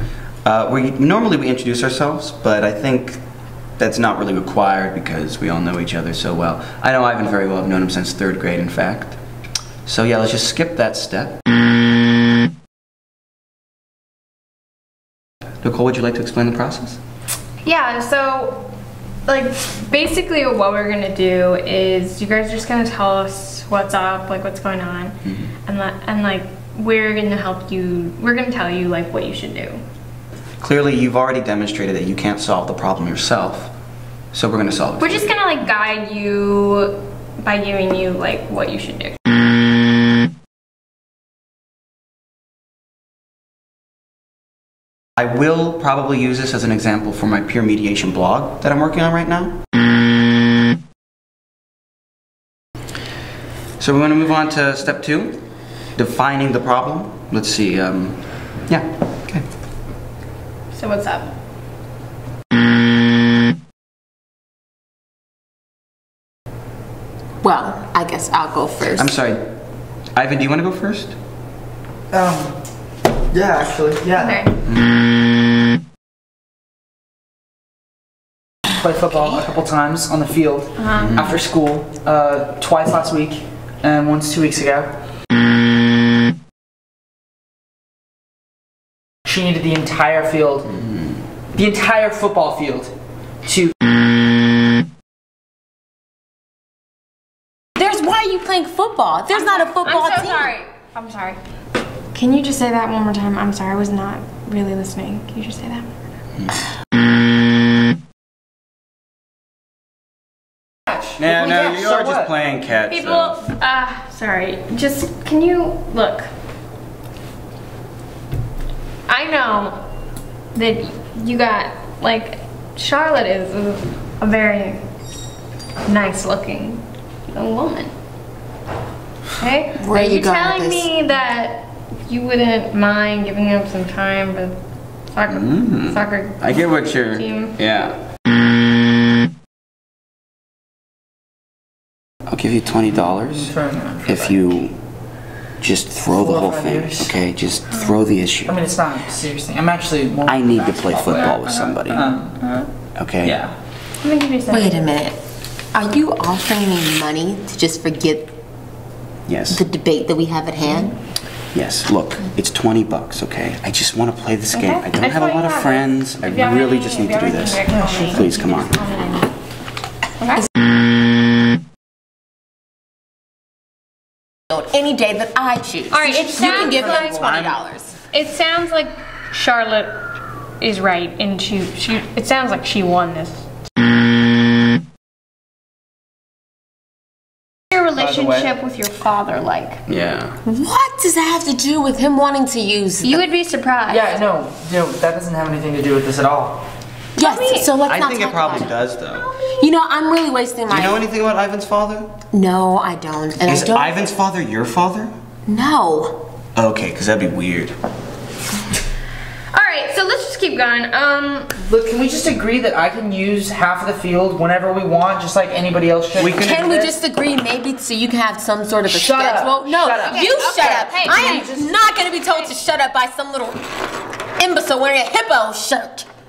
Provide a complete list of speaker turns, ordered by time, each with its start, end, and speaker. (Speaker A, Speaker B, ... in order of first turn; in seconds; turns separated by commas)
Speaker A: 0.5-3.2, Speaker A: 3.8-9.2, Speaker A: 9.9-11.4, Speaker A: 15.6-17.0, Speaker B: 17.6-18.6, Speaker B: 19.2-29.8, Speaker A: 25.2-25.5, Speaker A: 30.6-33.7, Speaker A: 34.3-35.3, Speaker B: 35.0-39.2, Speaker A: 45.2-49.6, Speaker A: 53.8-55.4, Speaker A: 55.9-59.5, Speaker B: 60.7-61.3, Speaker C: 67.4-69.1, Speaker A: 69.0-69.5, Speaker A: 70.1-71.2, Speaker D: 72.1-72.6, Speaker D: 73.3-74.4, Speaker B: 74.2-74.6, Speaker D: 78.8-84.9, Speaker B: 80.8-81.2, Speaker A: 81.0-81.4, Speaker D: 89.2-90.7, Speaker A: 90.7-91.2, Speaker D: 91.5-92.9, Speaker D: 93.5-93.7, Speaker C: 97.8-100.5, Speaker B: 99.3-101.4, Speaker B: 102.1-105.9, Speaker A: 111.2-113.4, Speaker D: 111.2-112.3, Speaker B: 112.9-116.3, Speaker B: 119.1-119.8, Speaker B: 120.5-124.8, Speaker B: 125.8-127.9, Speaker B: 129.4-134.6, Speaker C: 129.8-130.9, Speaker B: 135.1-137.6, Speaker A: 135.3-138.0, Speaker A: 142.3-143.5, Speaker D: 142.9-144.4, Speaker A: 144.1-144.8, Speaker A: 145.6-148.6, Speaker D: 146.1-147.2, Speaker B: 147.7-147.9, Speaker D: 148.5-152.3, Speaker A: 150.3-152.1, Speaker B: 151.0-152.7, Speaker A: 153.0-153.4, Speaker D: 153.2-153.5, Speaker B: 154.0-154.8, Speaker C: 154.5-155.2, Speaker C: 155.7-158.3, Speaker A: 159.3-159.6, Speaker C: 159.5-160.9, Speaker A: 161.5-168.8, Speaker B: 164.5-169.3, Speaker D: 167.7-168.3, Speaker B: 170.2-170.4, Speaker C: 174.5-177.9, Speaker B: 175.9-177.3, Speaker D: 176.4-177.5, Speaker A: 177.1-177.5, Speaker B: 178.1-180.0, Speaker B: 180.6-183.4, Speaker B: 187.7-189.8, Speaker D: 188.0-188.5, Speaker A: 189.9-190.4, Speaker C: 190.4-193.2, Speaker B: 193.0-194.2, Speaker D: 193.9-196.6, Speaker C: 197.2-198.7, Speaker B: 197.2-197.7, Speaker A: 197.8-199.3, Speaker C: 199.6-201.0, Speaker A: 200.7-202.2, Speaker C: 202.3-204.1, Speaker A: 203.4-205.1, Speaker C: 205.5-206.2, Speaker A: 206.6-207.8, Speaker B: 209.5-211.5, Speaker D: 211.6-217.0, Speaker A: 216.2-216.8, Speaker C: 216.2-223.6, Speaker D: 218.8-221.9, Speaker B: 220.0-221.5, Speaker C: 224.4-226.1